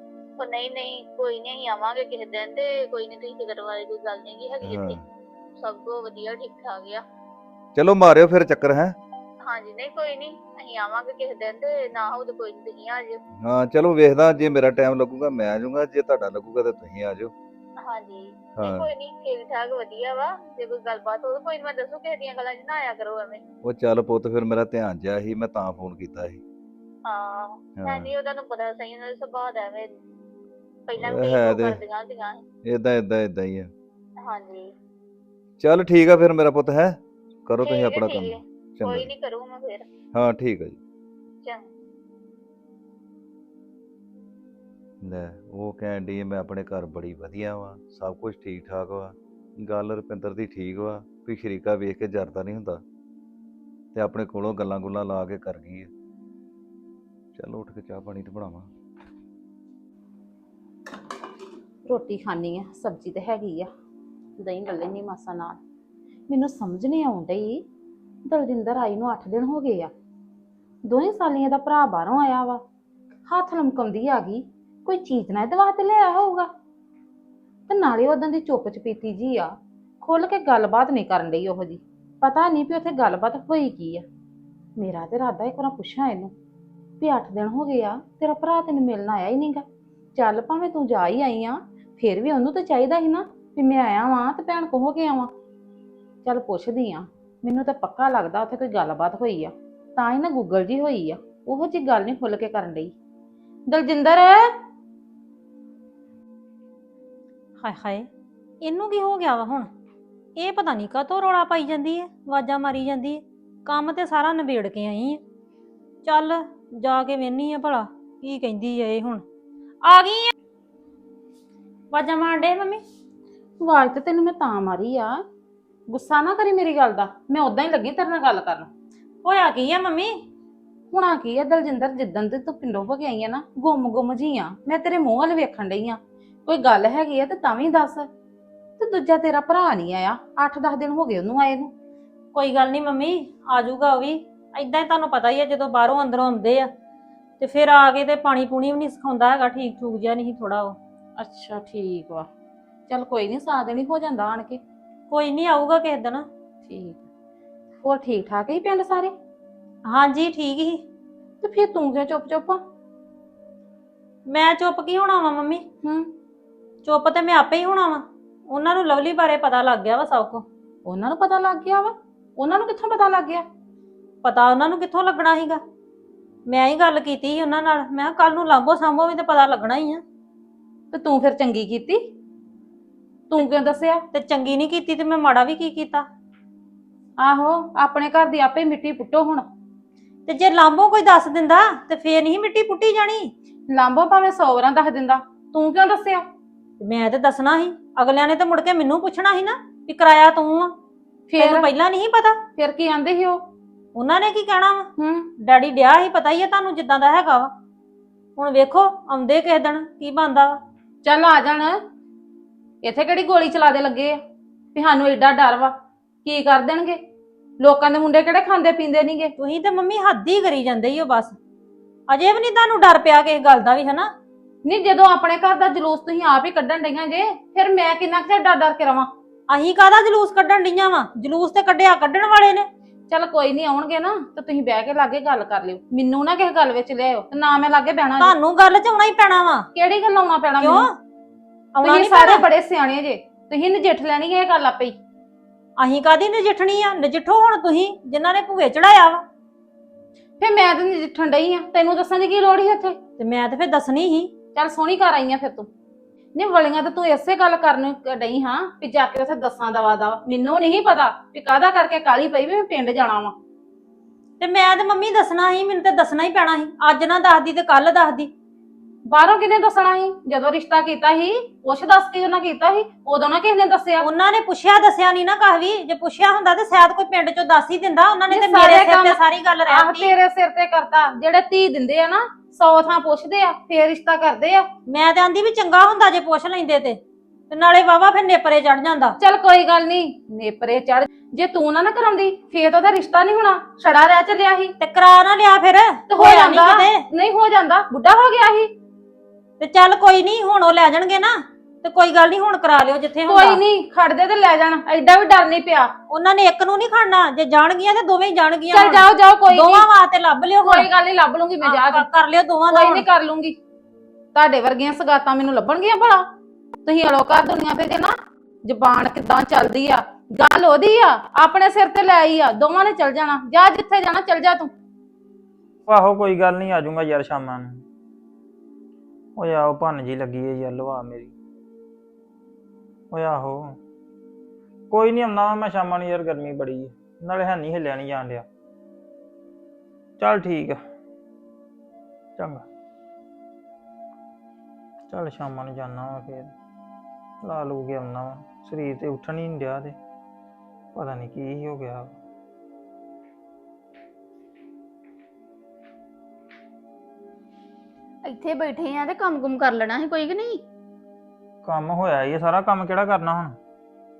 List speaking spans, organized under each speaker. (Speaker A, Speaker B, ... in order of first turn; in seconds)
Speaker A: 0.4-5.0, 5.6-6.7, 9.4-13.2, 17.8-23.4, 27.0-29.9, 30.9-32.4, 34.2-34.7, 37.6-39.9
Speaker B: 4.6-5.0, 7.8-8.9, 13.4-17.3, 18.6-18.9, 23.6-26.4, 27.8-28.1, 31.0-31.8, 32.6-33.7, 35.6-39.1, 40.1-40.8, 45.0-52.8, 53.9-55.9, 57.3-58.7
Speaker C: 5.7-7.0, 358.2-360.6
Speaker D: 61.9-63.7, 64.4-65.6, 66.3-67.6, 68.2-69.9, 70.8-72.6, 73.3-76.5, 77.7-84.0, 84.8-86.3, 87.0-89.6, 90.1-95.3, 96.2-102.9, 103.7-104.4, 123.6-125.2, 125.9-128.7, 130.9-138.1, 138.8-141.7, 151.2-152.3, 152.9-154.6, 156.6-157.0, 157.8-159.1, 161.4-162.6, 165.8-166.1, 170.9-173.4, 180.9-182.0, 183.3-184.0, 187.2-189.5, 193.7-196.2, 201.3-201.7, 202.6-203.4, 205.0-205.3, 211.0-211.8, 212.8-214.2, 214.8-217.0, 217.6-219.3, 224.6-229.1, 233.1-238.4, 239.7-240.9, 241.8-244.9, 250.4-253.0, 254.5-255.7, 256.3-263.4, 269.1-274.1, 278.3-284.7, 289.2-294.8, 296.1-298.7, 303.3-305.9, 308.7-309.9, 310.6-312.1, 312.7-313.6, 314.4-316.3, 316.8-318.1, 318.6-324.7
Speaker E: 107.6-108.1, 108.6-109.7, 110.4-115.2, 116.0-119.2, 119.8-120.3, 121.9-122.8, 129.2-130.2, 142.3-146.7, 147.4-150.8, 155.1-156.3, 159.8-160.8, 164.2-165.6, 166.8-170.4, 174.2-175.6, 176.4-180.0, 184.1-186.1, 190.2-193.3, 196.8-200.8, 201.4-202.4, 203.9-207.5, 208.4-210.6, 219.4-221.4, 222.1-224.1, 229.5-232.7, 238.2-239.7, 240.6-240.9, 241.8-242.4, 245.8-249.2, 253.2-254.3, 264.4-268.3, 274.0-280.1, 284.9-289.2, 294.8-297.0, 299.6-303.6, 306.1-310.9, 311.6-313.1
Speaker F: 325.9-327.9, 329.4-331.4, 333.1-333.8, 334.9-338.5, 340.2-340.8, 342.4-342.6, 345.1-346.5, 347.4-350.0, 350.9-352.1, 361.6-363.6